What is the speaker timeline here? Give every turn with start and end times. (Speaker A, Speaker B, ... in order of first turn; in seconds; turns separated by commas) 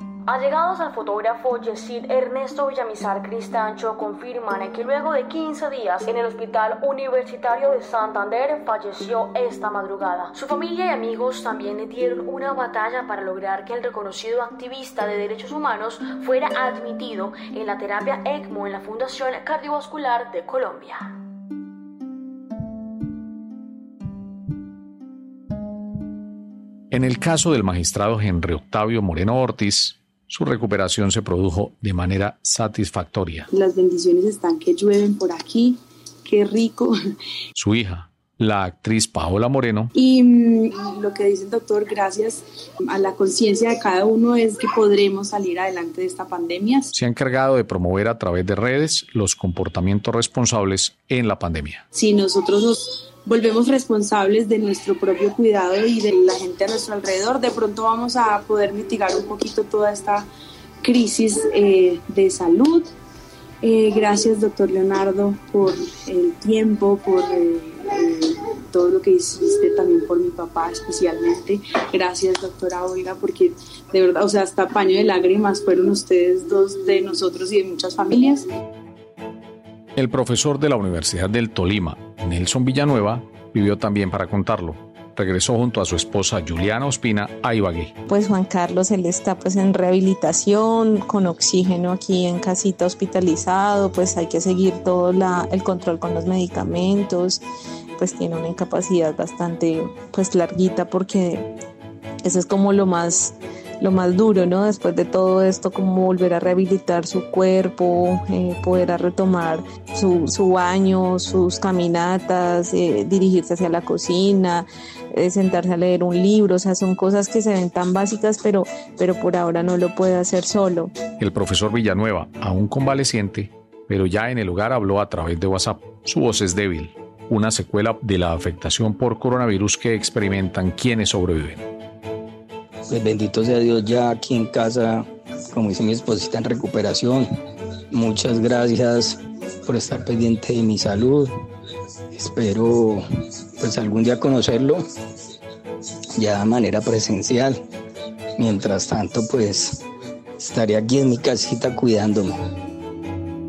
Speaker A: 0.3-21.1, Speaker B: 26.9-33.5, Speaker C: 33.5-37.0, Speaker B: 37.6-39.9, Speaker C: 40.0-46.9, Speaker B: 46.9-51.9, Speaker C: 51.9-60.3, Speaker C: 60.8-62.9, Speaker C: 63.6-78.5, Speaker B: 80.0-88.0, Speaker D: 88.1-97.4, Speaker D: 98.0-101.5, Speaker D: 102.2-120.9, Speaker B: 121.2-131.7, Speaker E: 132.9-137.3, Speaker E: 137.9-141.3, Speaker E: 142.2-143.1, Speaker E: 143.6-144.8, Speaker E: 146.2-147.6, Speaker E: 148.4-149.8, Speaker E: 150.4-152.4